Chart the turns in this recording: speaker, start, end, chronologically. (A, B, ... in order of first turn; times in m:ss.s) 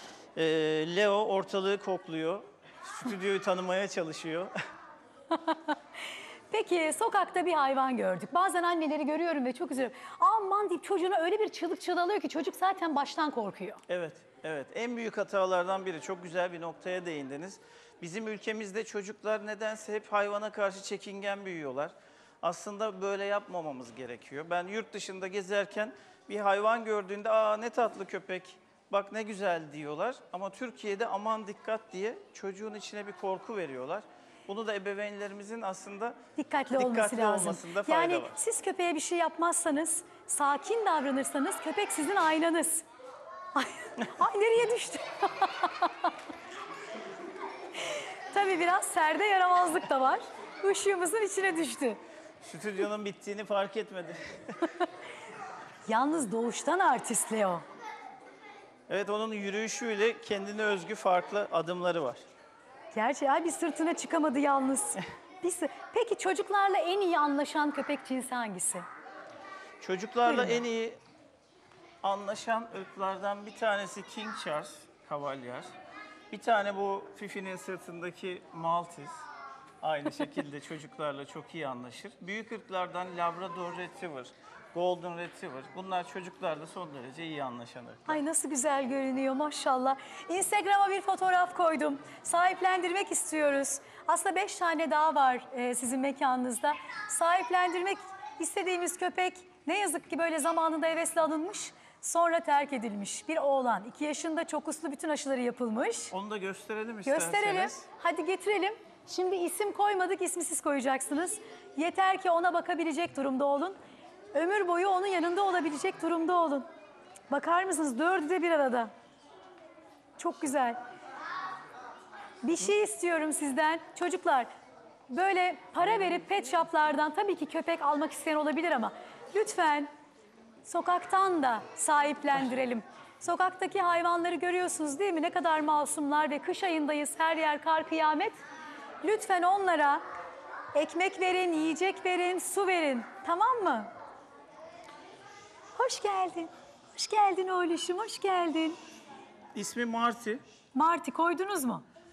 0:00.4-0:04.5 A
0:05.3-0:05.8 B
0:06.5-0:13.8 B
0:13.9-0:36.2 A
0:36.4-0:42.8 B
0:36.7-0:38.4 A
0:43.5-0:46.1 B
0:47.8-0:52.0 B
0:52.4-0:54.2 A
0:55.9-0:57.6 B
0:58.9-1:02.2 A
1:02.9-1:08.8 B
1:09.8-1:11.0 A
1:10.2-1:10.6 B
1:12.0-1:15.7 A
1:16.3-1:19.1 A
1:19.8-1:28.2 A
1:28.1-1:46.1 B
1:46.1-1:47.8 A
1:47.0-1:53.8 B
1:54.3-1:56.6 B
1:57.3-1:58.9 B
2:00.2-2:00.8 B
2:02.4-2:04.5 B
2:05.1-2:09.9 B
2:10.6-2:18.4 B
2:19.0-2:20.0 B
2:20.7-2:23.9 B
2:25.7-2:28.8 B
2:29.5-2:30.4 A
2:30.7-2:31.8 B